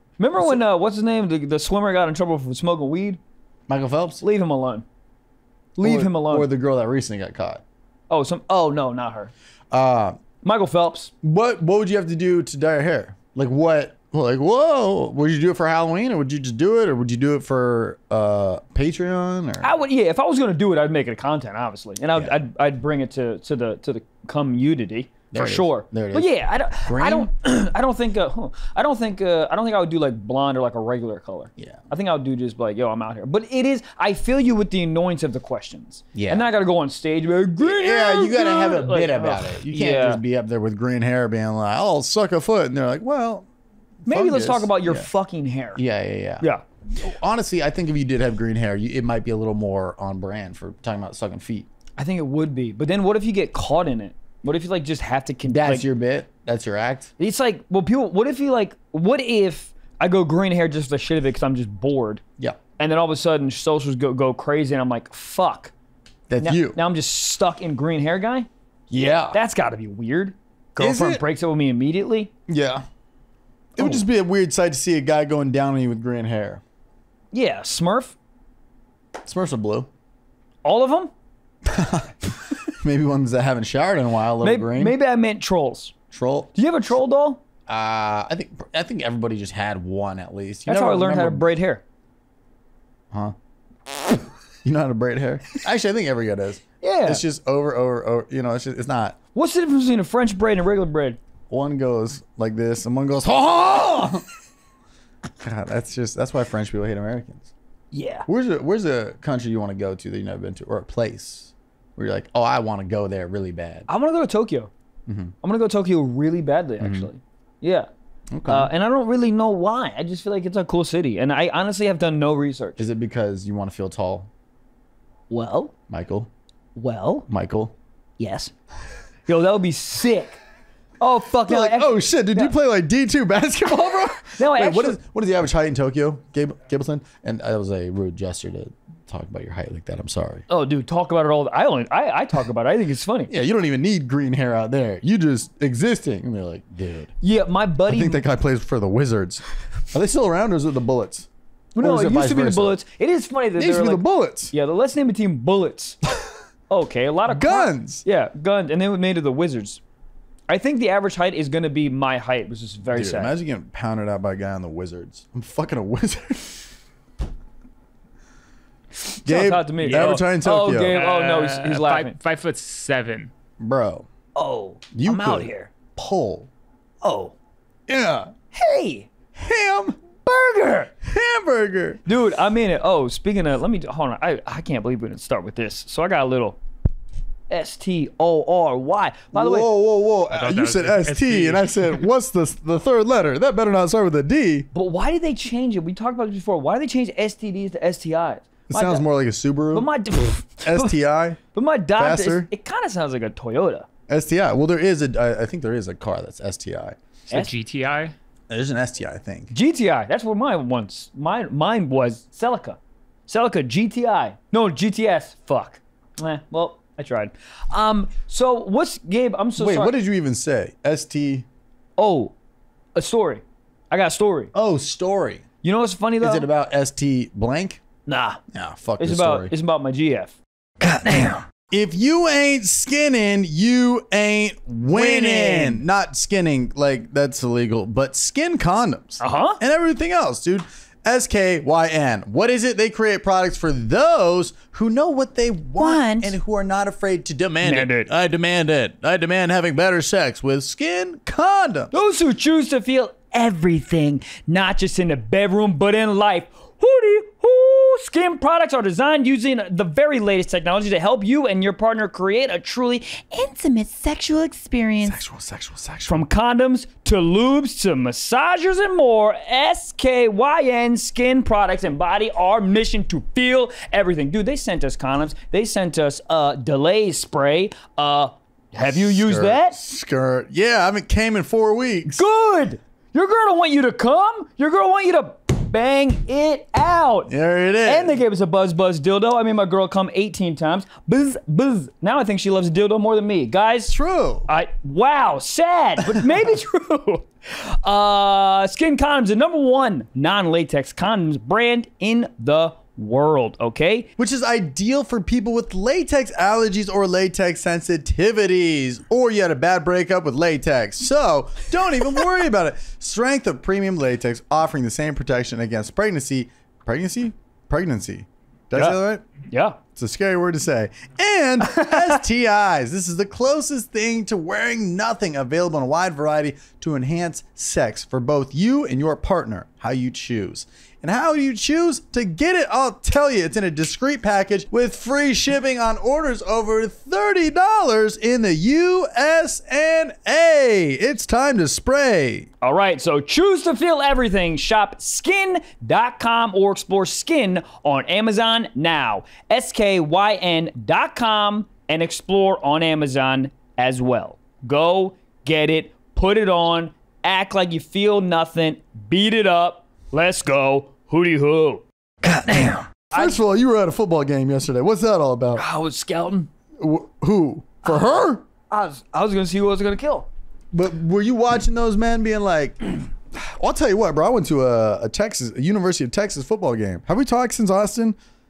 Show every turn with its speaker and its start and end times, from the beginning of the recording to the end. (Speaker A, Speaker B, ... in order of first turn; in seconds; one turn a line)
Speaker A: 0.2-3.2
Speaker B: 3.7-4.2
Speaker A: 4.2-4.8
Speaker A: 5.8-6.5
Speaker B: 5.8-7.6
Speaker A: 8.1-9.3
Speaker B: 9.7-10.2
Speaker A: 10.4-11.1
Speaker B: 11.2-19.7
Speaker A: 19.6-40.2
Speaker B: 25.3-27.3
Speaker B: 36.1-36.5
Speaker B: 37.6-43.5
Speaker B: 44.0-45.1
Speaker A: 44.1-45.8
Speaker B: 45.8-51.7
Speaker A: 52.0-55.8
Speaker B: 55.4-57.1
Speaker A: 57.2-62.2
Speaker A: 62.8-65.7
Speaker B: 66.3-66.8
Speaker A: 66.4-68.5
Speaker B: 68.9-69.4
Speaker A: 69.3-72.3
Speaker B: 70.8-71.2
Speaker B: 72.5-72.8
Speaker B: 73.8-76.6
Speaker A: 73.8-74.0
Speaker A: 77.3-78.2
Speaker B: 79.2-79.9
Speaker A: 80.6-81.1
Speaker B: 81.7-85.0
Speaker A: 84.4-85.9
Speaker B: 86.1-86.5
Speaker A: 86.5-87.4
Speaker B: 87.7-91.5
Speaker A: 90.7-91.8
Speaker B: 94.6-99.2
Speaker A: 96.8-97.2
Speaker A: 99.3-101.2
Speaker B: 101.5-104.2
Speaker B: 105.4-107.5
Speaker A: 107.9-108.2
Speaker B: 108.2-113.9
Speaker A: 113.9-114.7
Speaker B: 115.1-115.3
Speaker A: 115.4-117.9
Speaker B: 116.8-117.1
Speaker B: 118.3-118.7
Speaker A: 118.5-122.8
Speaker B: 122.8-124.3
Speaker A: 125.3-125.7
Speaker B: 125.9-126.3
Speaker A: 126.7-127.3
Speaker B: 127.3-127.7
Speaker A: 128.2-128.5
Speaker A: 129.2-130.4
Speaker A: 131.0-132.5
Speaker B: 131.4-140.4
Speaker A: 134.2-135.0
Speaker A: 140.5-143.3
Speaker B: 143.3-147.1
Speaker A: 147.2-148.2
Speaker B: 147.9-151.3
Speaker A: 151.7-156.0
Speaker B: 151.8-152.8
Speaker B: 153.6-154.5
Speaker A: 156.7-159.8
Speaker B: 157.3-158.0
Speaker A: 160.5-163.3
Speaker B: 162.9-166.7
Speaker A: 169.1-172.2
Speaker B: 169.2-171.0
Speaker C: 169.8-170.2
Speaker C: 170.9-173.3
Speaker B: 173.6-174.1
Speaker A: 174.3-175.7
Speaker B: 174.9-176.5
Speaker A: 177.0-177.3
Speaker B: 177.9-178.3
Speaker A: 178.5-179.1
Speaker B: 179.3-180.0
Speaker A: 180.2-180.9
Speaker B: 181.0-182.0
Speaker A: 182.1-186.6
Speaker A: 187.5-189.7
Speaker B: 189.3-194.7
Speaker C: 190.3-192.0
Speaker A: 194.7-199.0
Speaker B: 198.7-199.9
Speaker A: 199.7-201.0
Speaker B: 200.6-201.4
Speaker A: 201.5-203.8
Speaker B: 202.0-202.5
Speaker B: 204.1-207.0
Speaker C: 207.3-208.1
Speaker B: 208.5-209.5
Speaker A: 209.5-219.9
Speaker B: 219.6-221.4
Speaker A: 222.0-222.3
Speaker A: 222.9-224.5
Speaker B: 224.5-225.4
Speaker A: 225.6-226.5
Speaker B: 226.2-227.8
Speaker A: 228.1-228.4
Speaker B: 228.5-229.5
Speaker A: 229.0-231.4
Speaker B: 231.7-251.9
Speaker A: 234.9-235.8
Speaker A: 239.2-239.6
Speaker A: 245.8-246.3
Speaker A: 247.6-248.1
Speaker A: 251.9-265.2
Speaker B: 265.0-266.2
Speaker A: 266.1-279.8
Speaker B: 278.8-282.2
Speaker A: 282.1-287.3
Speaker B: 287.3-288.2
Speaker A: 287.8-293.9
Speaker B: 293.9-294.5
Speaker A: 294.5-304.1
Speaker B: 304.2-319.2
Speaker A: 318.7-319.8
Speaker B: 319.9-342.5
Speaker A: 321.7-322.2
Speaker A: 342.6-363.4
Speaker B: 363.1-365.6
Speaker A: 365.6-366.5
Speaker B: 366.8-368.4
Speaker A: 367.9-368.1
Speaker A: 368.7-370.3
Speaker B: 370.7-378.2